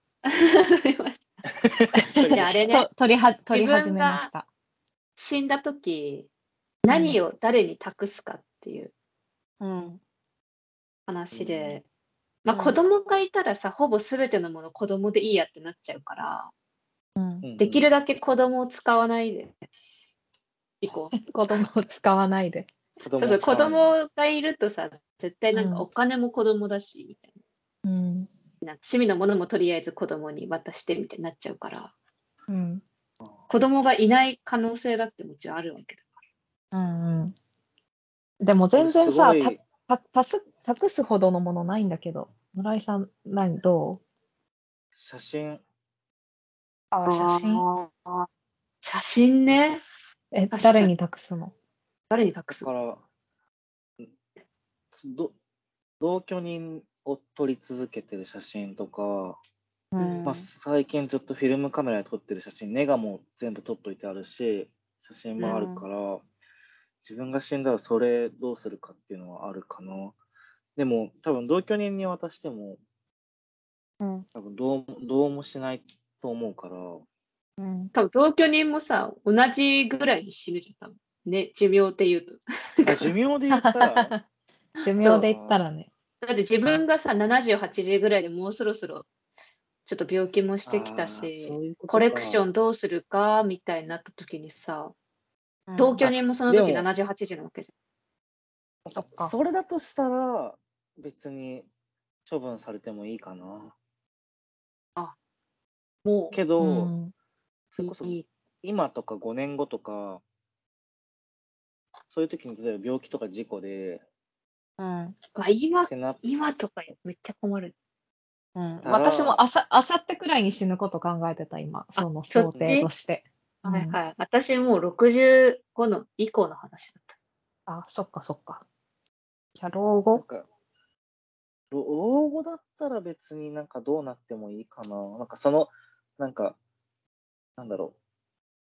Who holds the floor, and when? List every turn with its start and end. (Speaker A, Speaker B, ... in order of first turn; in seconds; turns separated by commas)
Speaker A: 0.3-1.2, Speaker B: 2.0-2.6, Speaker C: 2.1-4.5, Speaker A: 2.3-2.9, Speaker A: 3.5-4.3, Speaker A: 5.2-6.3, Speaker A: 6.8-8.9, Speaker C: 6.9-7.2, Speaker C: 9.6-10.0, Speaker A: 11.1-11.8, Speaker B: 11.3-11.8, Speaker A: 12.5-16.5, Speaker C: 12.5-12.8, Speaker C: 17.2-17.4, Speaker B: 17.4-17.9, Speaker A: 17.6-19.6, Speaker A: 20.8-21.1, Speaker C: 21.1-22.7, Speaker B: 23.0-23.9, Speaker A: 23.2-27.3, Speaker C: 25.5-25.9, Speaker C: 27.8-28.3, Speaker A: 28.6-31.9, Speaker C: 32.5-32.8, Speaker A: 33.5-36.1, Speaker C: 36.7-37.3, Speaker C: 38.4-44.0, Speaker B: 38.8-39.6, Speaker B: 44.9-45.6, Speaker C: 46.9-47.6, Speaker A: 47.1-48.3, Speaker A: 48.8-49.8, Speaker C: 50.3-51.5, Speaker A: 50.5-50.9, Speaker A: 52.1-52.7, Speaker B: 52.5-53.0, Speaker B: 54.9-55.3, Speaker B: 56.0-59.4, Speaker C: 59.9-60.4, Speaker A: 60.0-60.4, Speaker B: 60.2-66.2, Speaker A: 65.4-65.8, Speaker B: 67.0-70.2, Speaker B: 70.8-72.8, Speaker B: 74.3-77.0, Speaker C: 77.6-77.9, Speaker A: 77.9-83.1, Speaker B: 82.8-84.1, Speaker C: 83.5-84.2, Speaker A: 84.8-85.2, Speaker C: 84.8-85.9, Speaker B: 85.0-85.6, Speaker A: 86.2-89.1, Speaker A: 89.8-94.9, Speaker B: 90.7-92.4, Speaker C: 95.7-96.0, Speaker A: 95.8-97.7, Speaker B: 96.0-96.8, Speaker B: 98.9-101.7, Speaker C: 98.9-99.3, Speaker B: 102.2-103.7, Speaker A: 106.0-106.4, Speaker B: 106.3-106.9, Speaker C: 106.6-107.1, Speaker B: 107.7-110.2, Speaker A: 107.8-108.2, Speaker B: 112.1-114.0, Speaker C: 114.8-115.1, Speaker A: 115.3-117.7, Speaker B: 115.9-116.2, Speaker C: 118.5-124.0, Speaker B: 118.8-119.4, Speaker A: 122.0-122.9, Speaker B: 122.5-122.8, Speaker A: 123.6-127.2, Speaker C: 127.7-128.6, Speaker C: 129.6-130.2, Speaker B: 130.2-130.4, Speaker B: 131.7-136.6, Speaker B: 137.6-137.9